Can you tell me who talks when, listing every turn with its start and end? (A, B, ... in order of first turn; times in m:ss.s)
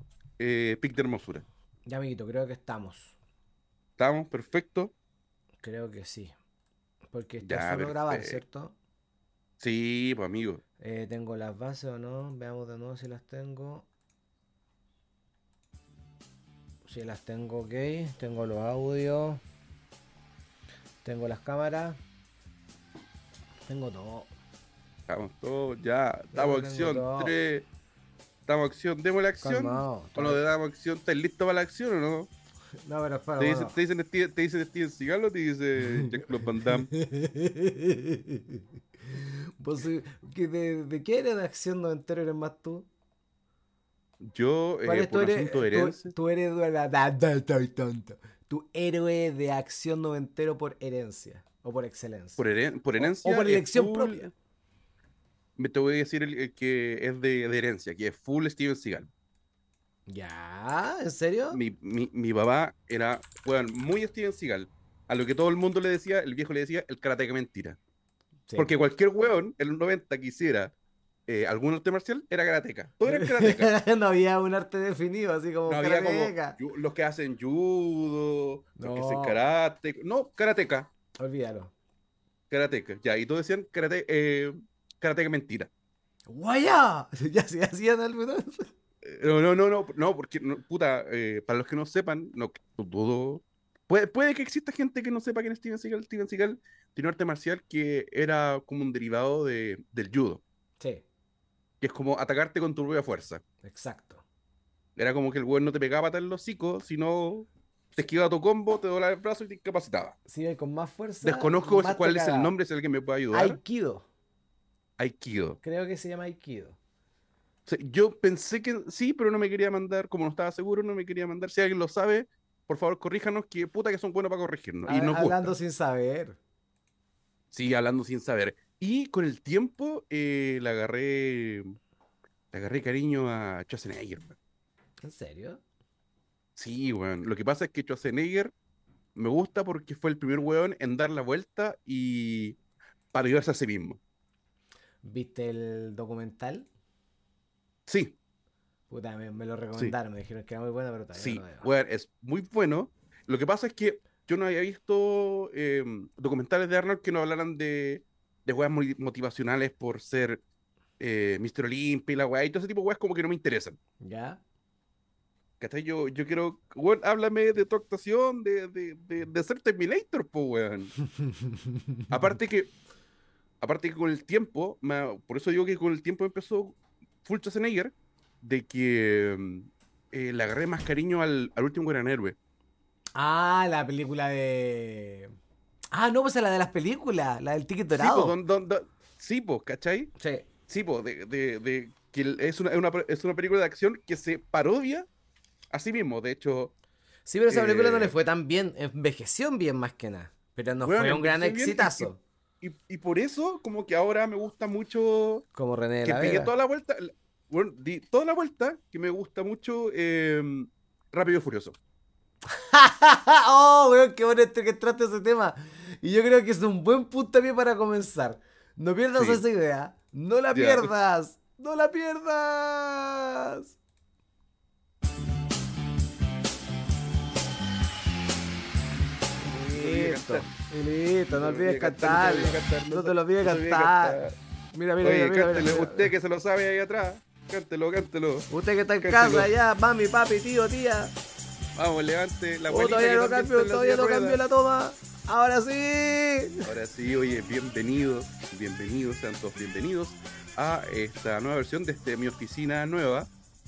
0:00.4-0:01.4 A
0:01.9-0:03.1 B
0:04.0-0:04.9 A
0:05.6-0:06.3 B
0:07.1-0:08.7 B
0:07.4-0:08.4 A
0:09.6-0:10.6 A
0:10.8-0:13.8 B
0:16.8-0:19.4 B
0:21.0-0:22.0 B
0:23.7-0:24.3 B
0:25.1-0:27.7 A
0:26.3-0:27.3 B
0:28.5-0:32.3 A
0:29.4-0:30.4 B
0:32.8-0:33.8 B
0:33.4-0:36.9 A
0:35.8-0:42.9 B
0:44.2-0:46.1 A
0:44.8-0:52.4 B
0:52.4-0:54.3 A
0:53.0-0:54.2 B
0:55.6-0:59.1 A
1:00.1-1:01.6 B
1:01.5-1:07.8 A
1:08.5-1:08.7 B
1:08.6-1:10.7 A
1:11.3-1:13.7 A
1:13.0-1:16.6 B
1:15.7-1:20.9 A
1:18.8-1:19.4 B
1:21.2-1:21.7 B
1:22.5-1:25.7 A
1:26.3-1:28.7 B
1:29.0-1:40.4 A
1:41.8-1:43.4 A
1:43.6-1:44.2 B
1:45.0-1:50.2 A
1:50.2-1:52.5 B
1:51.2-1:53.6 A
1:53.3-1:54.0 B
1:55.0-1:55.6 A
1:55.6-1:56.8 B
1:57.6-2:05.5 A
2:04.8-2:06.4 B
2:07.5-2:11.8 A
2:12.5-2:14.4 A
2:15.0-2:15.6 B
2:16.6-2:18.5 A
2:19.1-2:22.6 A
2:23.1-2:24.0 A
2:25.0-2:26.7 B
2:27.9-2:28.2 A
2:28.9-2:31.7 B
2:31.1-2:40.4 A
2:41.0-2:43.8 A
2:44.0-2:44.4 B
2:45.6-2:50.9 A
2:51.3-2:51.9 B
2:52.1-2:52.7 A
2:53.6-3:02.4 A
3:03.1-3:05.3 B
3:05.9-3:08.4 B
3:07.9-3:10.1 A
3:10.2-3:10.5 B
3:10.7-3:15.1 A
3:15.7-3:16.7 A
3:17.2-3:22.2 B
3:17.5-3:18.1 A
3:20.8-3:25.4 A
3:25.5-3:26.5 B
3:26.0-3:31.8 A
3:32.5-3:43.7 B
3:39.1-3:39.4 A
3:40.5-3:40.9 A
3:49.4-3:54.2 B
3:49.7-3:50.5 A
3:51.3-3:54.3 A
3:54.7-3:56.1 B
3:55.0-3:58.5 A
3:58.5-4:01.2 B
3:59.0-3:59.5 A
4:01.7-4:04.4 A
4:02.7-4:06.7 B
4:06.6-4:13.3 A